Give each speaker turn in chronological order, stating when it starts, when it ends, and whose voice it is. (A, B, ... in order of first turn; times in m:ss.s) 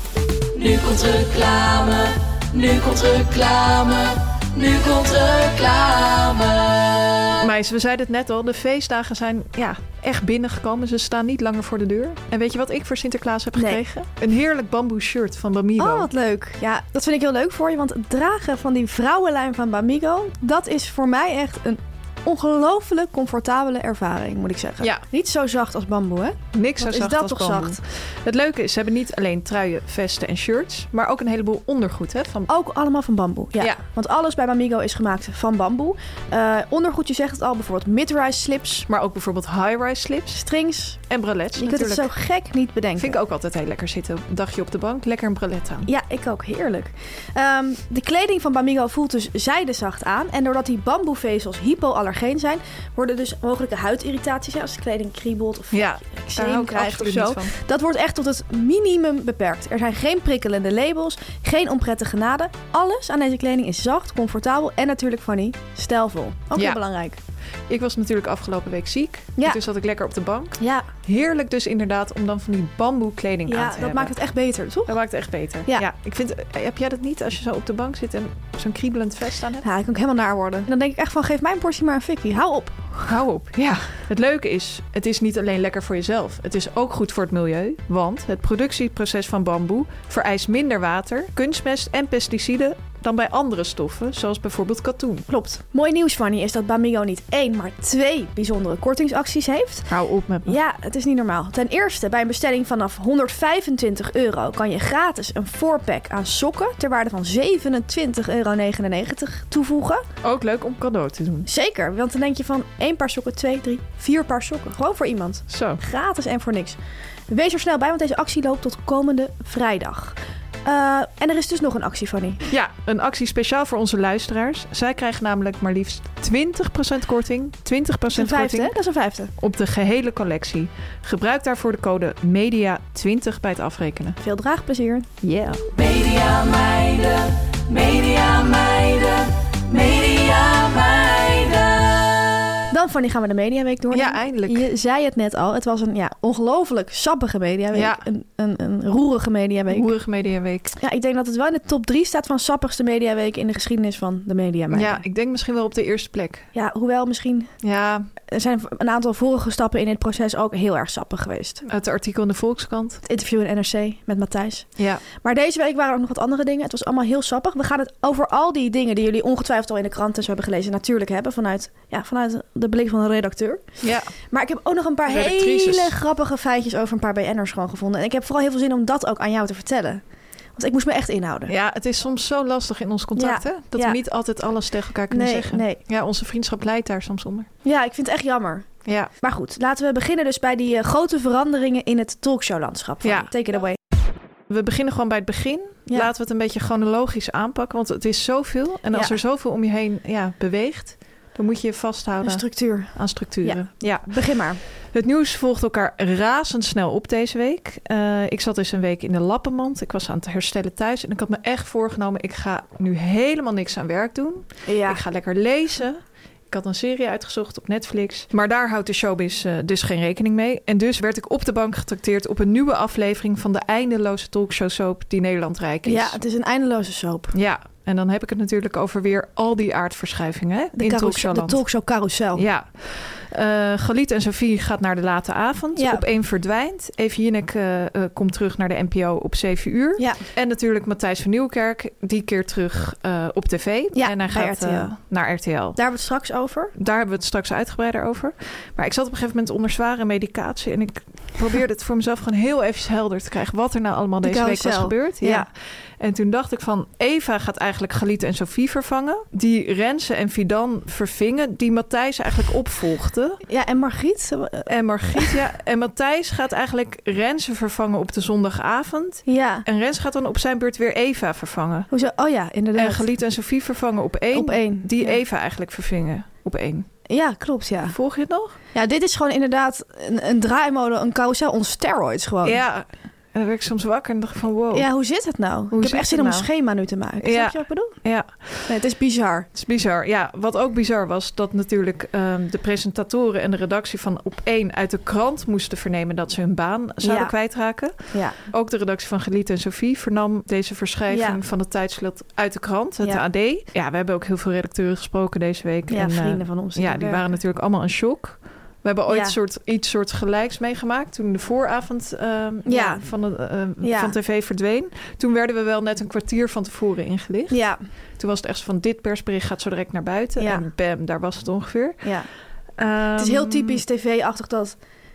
0:00.6-0:07.4 A
0:07.4-0:16.1 B
0:13.6-0:13.8 C
0:15.8-0:27.8 C
0:26.5-0:32.5 B
0:32.5-0:38.9 C
0:38.9-0:40.4 B
0:40.4-0:41.0 C
0:41.1-0:42.1 B
0:41.6-0:43.2 C
0:43.0-0:45.9 B
0:45.9-1:07.2 C
0:55.7-0:57.6 B
1:07.7-1:14.1 B
1:10.6-1:10.9 C
1:13.5-1:15.0 C
1:14.9-1:19.6 B
1:19.6-1:23.1 C
1:23.1-1:35.3 B
1:35.3-1:39.9 C
1:39.9-1:40.6 B
1:40.5-1:50.0 C
1:50.2-1:51.5 B
1:51.5-1:56.8 C
1:55.5-1:55.8 B
1:57.3-2:02.4 C
2:02.5-2:08.8 B
2:08.1-2:09.3 C
2:09.4-2:14.2 B
2:14.2-2:15.1 C
2:15.2-2:15.6 B
2:15.7-2:22.4 A
2:22.7-2:29.9 C
2:23.9-2:24.7 B
2:27.7-2:28.0 B
2:29.7-2:30.8 B
2:30.8-2:35.0 C
2:34.7-2:36.5 B
2:36.5-2:37.5 C
2:37.6-2:38.1 B
2:38.3-2:41.7 C
2:41.7-2:43.0 B
2:43.0-2:53.6 C
2:44.8-2:45.0 B
2:53.8-2:54.1 B
2:54.3-3:00.0 C
2:55.1-2:56.0 B
3:00.6-3:01.5 C
3:01.5-3:07.5 B
3:03.2-3:04.0 C
3:05.1-3:05.8 C
3:07.6-3:08.7 C
3:08.8-3:09.1 B
3:09.2-3:13.8 C
3:13.0-3:13.3 B
3:14.5-3:46.2 B
3:22.2-3:24.6 C
3:34.7-3:35.0 C
3:45.8-3:47.3 C
3:47.3-3:51.6 B
3:50.8-3:52.4 C
3:52.4-4:05.8 B
3:55.8-3:56.0 C
4:00.0-4:00.2 C
4:03.9-4:04.9 C
4:05.8-4:06.7 C
4:06.8-4:23.4 B
4:14.2-4:15.5 C
4:23.5-4:25.4 C
4:24.7-4:31.9 B
4:29.3-4:29.6 C
4:31.9-4:33.0 C
4:32.8-4:36.9 B
4:34.3-4:35.2 C
4:37.1-4:38.0 C
4:37.9-4:38.6 B
4:38.7-4:42.6 C
4:42.4-4:44.9 B
4:44.7-4:48.0 C
4:45.7-4:46.5 B
4:47.2-4:48.8 B
4:48.7-4:49.5 C
4:49.6-5:22.1 B
4:57.0-4:57.3 C
4:58.1-4:58.4 C
5:01.1-5:01.4 C
5:05.9-5:07.2 C
5:09.1-5:09.4 C
5:12.7-5:13.1 C
5:13.8-5:14.2 C
5:17.5-5:17.8 C
5:20.4-5:20.6 C
5:22.0-5:22.3 C
5:22.8-5:23.8 B
5:23.2-5:24.8 C